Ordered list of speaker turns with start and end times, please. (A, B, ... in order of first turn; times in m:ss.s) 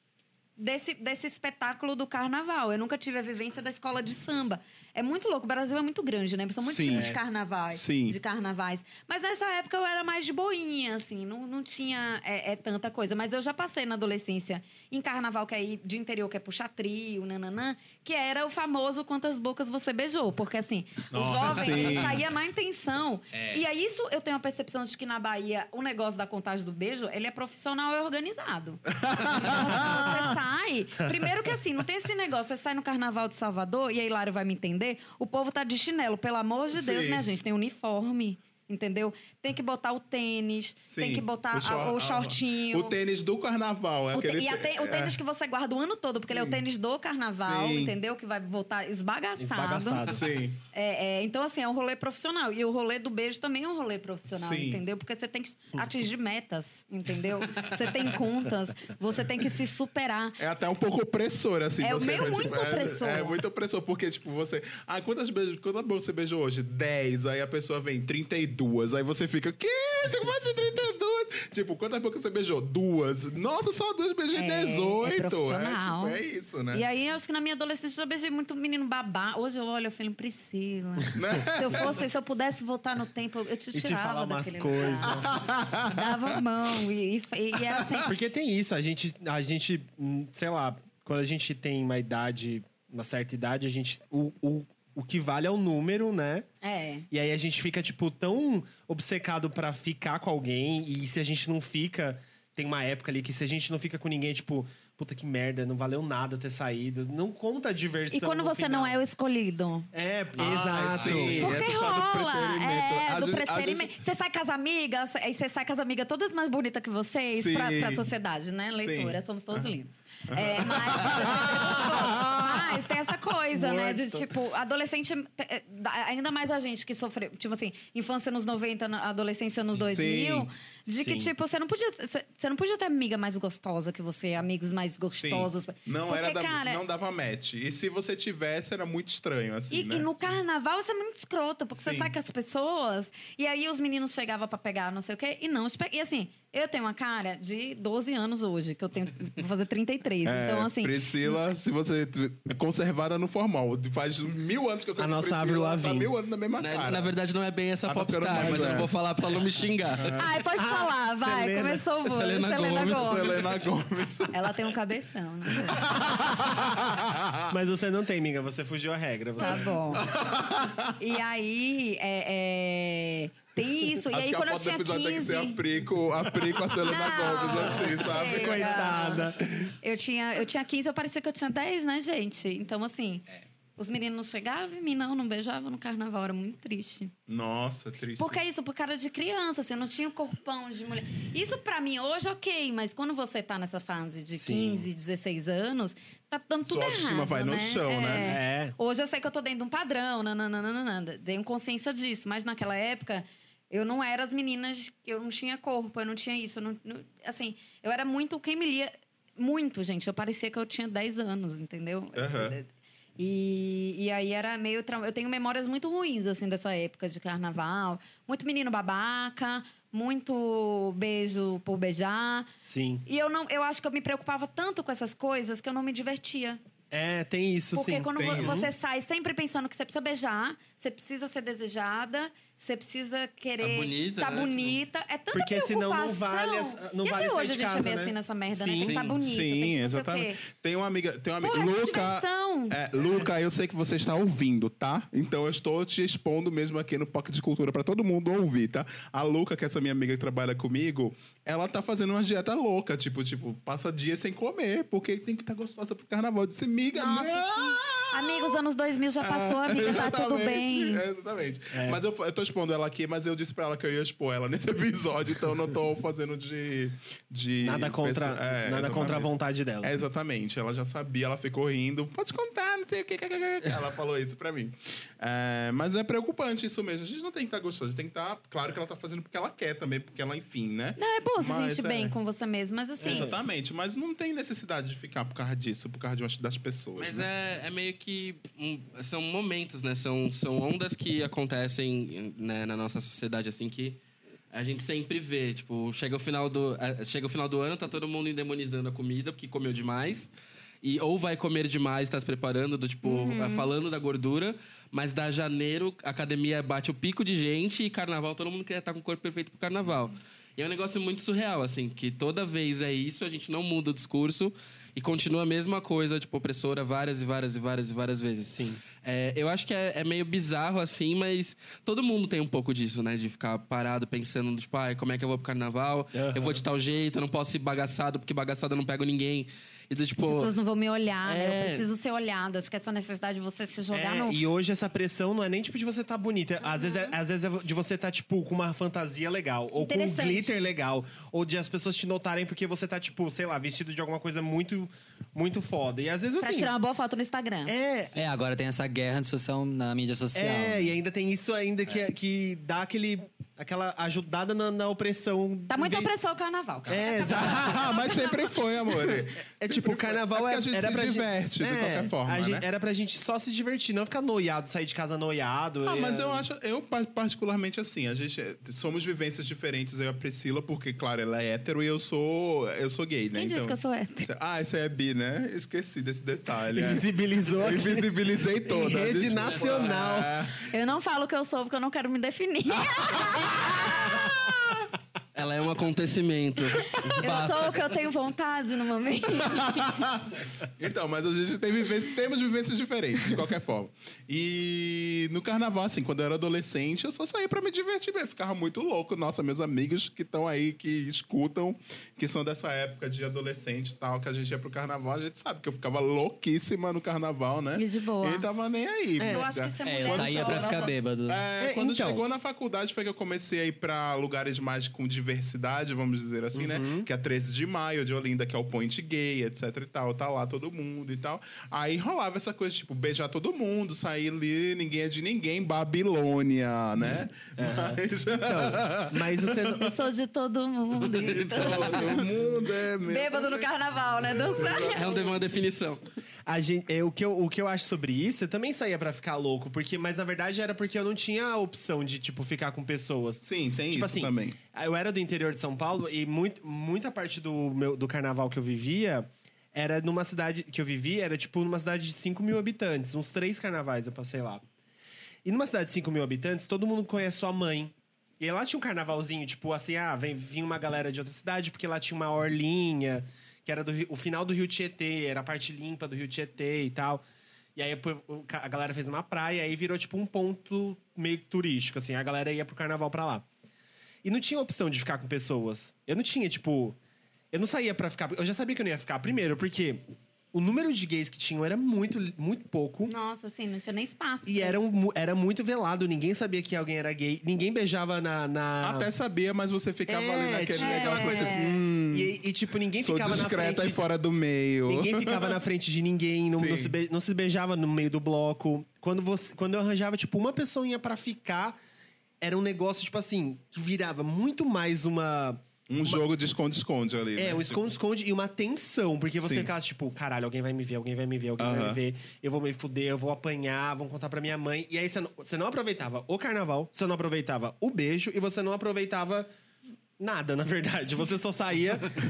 0:00.6-0:43.0 A
0:06.6-0:07.1 B
0:06.9-0:07.2 C
0:07.7-0:08.2 B
0:21.1-0:22.2 B
0:29.0-0:30.4 B
0:36.8-0:37.2 B
0:40.9-0:45.2 B
0:44.1-0:50.1 A
0:46.3-0:46.6 B
0:47.4-0:48.0 B
0:49.4-0:50.2 C
0:50.1-0:50.6 B
0:50.7-1:00.4 A
0:54.3-0:54.8 B
1:00.4-1:16.8 B
1:01.8-1:03.4 A
1:14.3-1:16.2 A
1:16.7-1:25.3 A
1:21.1-1:22.0 B
1:23.7-1:25.4 C
1:25.1-1:26.2 B
1:25.8-1:28.1 A
1:28.0-1:36.5 C
1:36.6-1:37.1 A
1:37.1-1:49.0 C
1:48.1-1:49.9 A
1:49.9-1:51.5 C
1:50.4-1:51.4 D
1:50.4-1:53.9 B
1:51.4-2:16.8 A
1:57.3-1:58.1 B
1:58.8-1:59.7 B
2:00.3-2:02.9 B
2:03.5-2:04.3 C
2:09.8-2:10.5 B
2:11.0-2:11.3 C
2:15.2-2:20.1 B
2:19.7-2:31.0 A
2:21.8-2:22.1 B
2:30.2-2:37.1 B
2:35.0-2:36.1 C
2:36.6-2:40.2 D
2:37.9-2:38.9 B
2:38.3-2:38.7 C
2:40.0-2:40.2 B
2:40.2-2:43.4 A
2:40.4-2:41.8 C
2:42.0-2:43.6 D
2:42.8-2:44.7 B
2:44.3-2:46.3 A
2:45.6-2:47.5 B
2:47.5-2:50.0 C
2:49.4-2:50.1 A
2:49.9-2:51.0 B
2:51.0-2:55.6 A
2:54.1-2:59.1 B
2:56.8-3:03.2 A
2:58.0-2:59.7 C
3:03.8-3:07.1 A
3:07.3-3:08.4 B
3:08.2-3:32.7 A
3:14.3-3:14.9 C
3:16.7-3:18.3 B
3:18.2-3:18.8 C
3:32.2-3:32.6 B
3:33.2-3:42.5 A
3:42.6-3:43.0 C
3:43.1-3:46.6 A
3:46.9-3:48.7 C
3:47.7-4:00.4 A
3:48.2-3:48.7 B
3:53.6-3:54.8 D
3:55.3-3:59.0 C
3:58.8-3:59.2 D
3:59.2-4:18.6 B
4:01.4-4:02.8 A
4:03.0-4:03.3 C
4:17.0-4:21.0 A
4:19.2-4:29.3 B
4:21.7-4:22.0 C
4:27.6-4:30.0 C
4:29.8-4:42.2 B
4:41.0-4:43.3 A
4:43.0-4:43.4 C
4:43.1-4:47.3 B
4:47.0-4:54.0 D
4:54.5-5:00.3 D
5:00.8-5:30.5 D
5:03.0-5:03.7 A
5:18.5-5:18.8 C
5:26.1-5:26.6 C
5:30.2-5:34.4 A
5:31.2-5:31.9 D
5:33.9-5:46.7 C
5:36.8-5:37.1 A
5:39.8-5:40.6 A
5:46.4-5:47.7 A
5:47.7-5:48.2 C
5:48.2-5:50.9 E
5:50.4-5:56.1 C
5:55.7-5:58.6 A
5:56.9-5:58.0 C
5:57.3-6:02.7 B
5:59.2-6:06.4 C
6:05.8-6:20.7 B
6:13.3-6:14.3 A
6:16.7-6:20.4 C
6:19.5-6:19.9 D
6:20.6-6:24.4 A
6:23.0-6:24.8 B
6:25.4-6:27.7 D
6:26.8-6:30.0 A
6:29.3-7:09.8 B
6:47.8-6:48.5 A
6:49.2-6:49.5 C
6:49.2-6:50.9 A
6:49.8-6:51.4 E
6:51.6-6:52.2 C
6:56.5-6:57.1 C
7:07.6-7:10.0 C
7:09.7-7:12.3 A
7:11.0-7:12.3 D
7:11.5-7:13.7 B
7:13.1-7:15.3 A
7:14.4-7:15.2 B
7:14.6-7:16.0 D
7:16.5-7:34.6 C
7:23.4-7:24.6 B
7:35.4-7:47.2 C
7:47.8-7:53.4 C
7:54.2-7:57.0 C
7:57.5-8:03.1 C
8:03.1-8:04.8 A
8:04.5-8:09.1 C
8:08.8-8:12.3 B
8:10.1-8:14.0 C
8:10.8-8:11.7 A
8:13.0-8:15.6 B
8:14.9-8:21.8 C
8:16.5-8:16.9 B
8:22.4-8:26.3 C
8:25.9-8:27.8 B
8:27.4-8:39.5 C
8:29.4-8:29.7 B
8:31.6-8:32.0 B
8:40.2-8:42.2 C